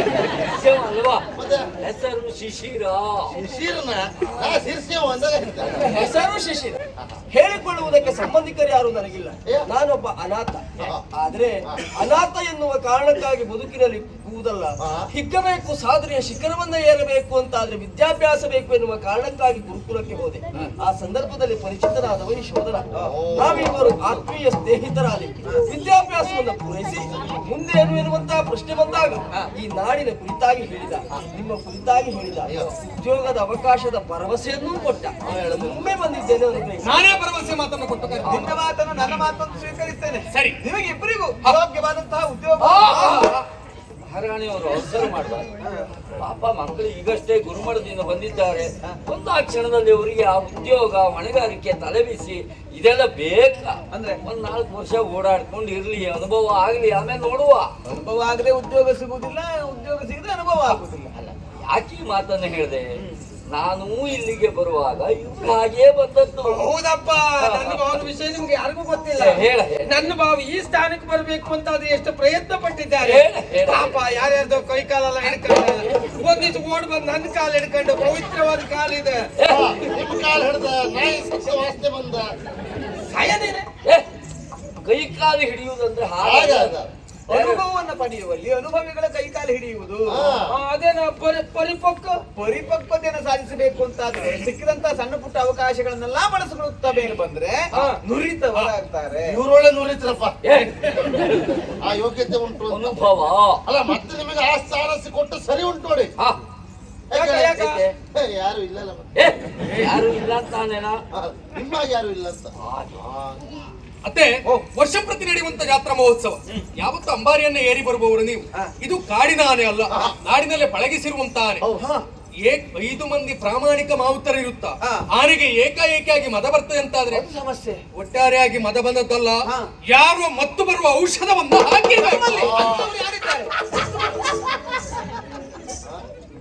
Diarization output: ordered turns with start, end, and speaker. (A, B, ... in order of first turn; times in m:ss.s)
0:00.3-0:01.3 A
0:01.4-0:01.7 B
0:01.8-0:03.4 A
0:03.3-0:05.9 B
0:05.7-0:06.8 C
0:07.3-0:36.9 C
0:10.8-0:11.0 B
0:14.8-0:15.1 B
0:23.0-0:23.8 B
0:32.4-0:32.7 B
0:35.2-0:35.9 B
0:36.8-0:38.5 D
0:38.2-0:43.4 E
0:40.3-0:40.6 D
0:42.6-0:43.4 D
0:44.1-0:45.4 A
0:45.6-0:45.9 E
0:46.2-0:57.7 A
0:53.9-0:54.2 E
0:57.9-1:01.2 E
1:01.7-1:02.9 A
1:03.5-1:06.7 A
1:06.4-1:19.2 F
1:07.4-1:07.9 A
1:09.2-1:10.0 A
1:13.0-1:14.0 A
1:19.4-1:19.8 A
1:19.4-1:22.3 B
1:23.1-1:23.6 F
1:24.8-1:27.6 A
1:26.2-1:26.9 B
1:27.3-1:30.4 E
1:30.1-1:30.5 B
1:30.5-1:32.2 F
1:32.4-1:39.3 E
1:37.7-1:38.0 F
1:39.3-1:40.3 B
1:40.4-1:41.8 A
1:41.8-1:43.0 B
1:42.7-1:43.6 A
1:43.6-1:46.1 B
1:47.1-1:49.0 B
1:47.1-1:47.8 F
1:49.2-1:51.0 A
1:51.1-1:53.6 B
1:52.6-1:53.0 A
1:54.0-2:01.6 D
2:01.6-2:02.0 E
2:02.4-2:07.2 D
2:07.1-2:08.0 E
2:08.0-2:12.7 D
2:12.0-2:13.5 F
2:12.4-2:12.9 B
2:12.6-2:12.9 E